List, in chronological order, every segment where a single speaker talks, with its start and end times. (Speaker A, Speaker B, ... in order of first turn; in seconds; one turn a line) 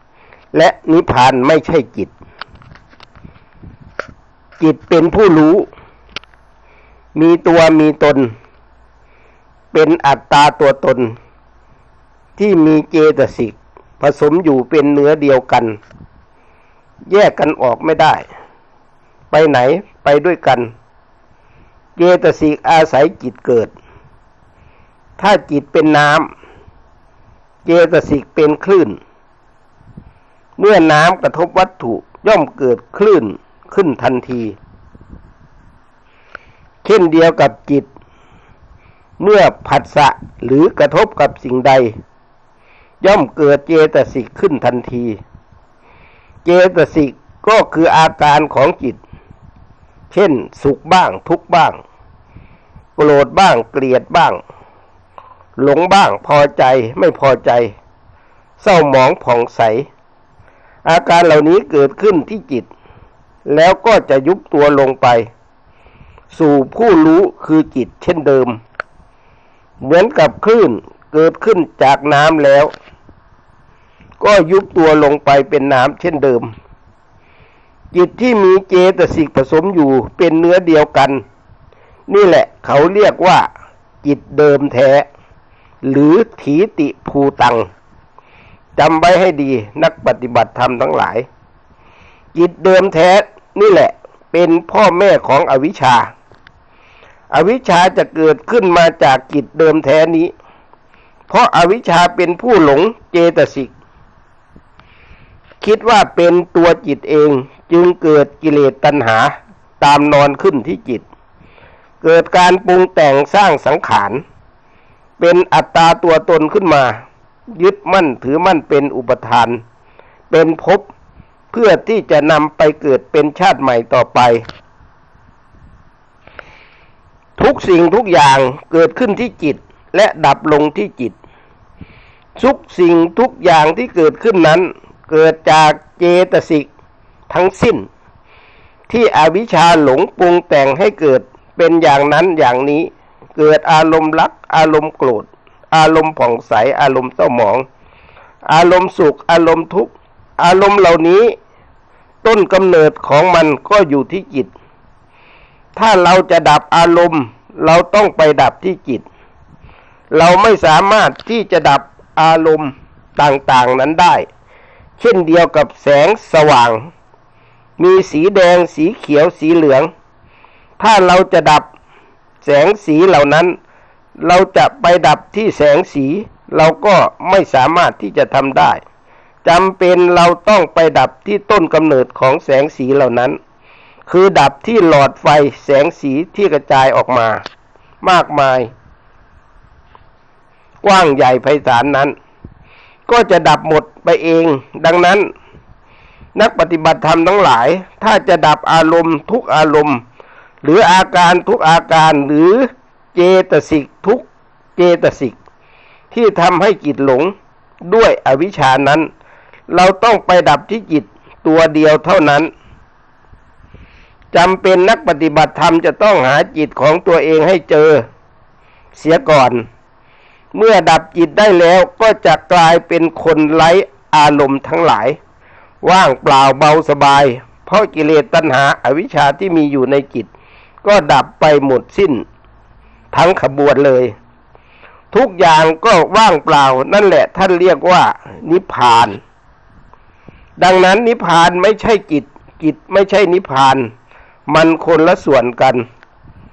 Speaker A: 0.5-2.1
Speaker A: 4.6-5.7
Speaker A: 7.1-8.3
Speaker A: 9.7-11.1
Speaker A: 12.4-15.8
Speaker A: 17.1-18.2
Speaker A: 19.3-20.7
Speaker A: 22.0-23.7
Speaker A: 25.2-26.3
Speaker A: 27.6-29.0
Speaker A: 30.6-34.5
Speaker A: 36.8-37.9
Speaker A: 39.2-41.9
Speaker A: 43.0-45.2
Speaker A: 46.4-49.0
Speaker A: 50.1-51.8
Speaker A: 53.0-54.4
Speaker A: 55.6-57.7
Speaker A: 58.6-59.9
Speaker A: 60.8-62.7
Speaker A: 63.5-65.2
Speaker A: 66.3-68.6
Speaker A: 69.8-72.7
Speaker A: 74.2-76.5
Speaker A: 77.9-81.2
Speaker A: 82.1-83.5
Speaker A: 84.0-85.0
Speaker A: 85.8-87.7
Speaker A: 88.8-91.2
Speaker A: 92.3-96.1
Speaker A: 97.3-100.3
Speaker A: 101.3-103.7
Speaker A: 105.6-111.0
Speaker A: 112.0-114.2
Speaker A: 115.2-119.6
Speaker A: 120.3-120.9
Speaker A: 121.5-124.4
Speaker A: 127.4-131.2
Speaker A: 132.3-136.7
Speaker A: 137.3-137.9
Speaker A: 138.9-147.7
Speaker A: 148.5-151.3
Speaker A: 152.2-154.5
Speaker A: 155.7-159.1
Speaker A: 160.1-164.2
Speaker A: 165.0-166.9
Speaker A: 167.8-169.9
Speaker A: 170.8-171.7
Speaker A: 172.4-173.6
Speaker A: 174.2-178.8
Speaker A: 179.4-183.4
Speaker A: 184.1-187.4
Speaker A: 188.0-188.7
Speaker A: 190.8-192.1
Speaker A: 193.1-195.3
Speaker A: 196.3-200.0
Speaker A: 200.6-204.2
Speaker A: 204.8-205.4
Speaker A: 206.1-207.3
Speaker A: 207.8-209.1
Speaker A: 209.7-212.5
Speaker A: 214.3-218.0
Speaker A: 218.9-219.6
Speaker A: 220.5-225.2
Speaker A: 225.8-230.3
Speaker A: 230.8-232.2
Speaker A: 233.1-234.1
Speaker A: 235.1-239.2
Speaker A: 240.6-243.9
Speaker A: 244.5-245.8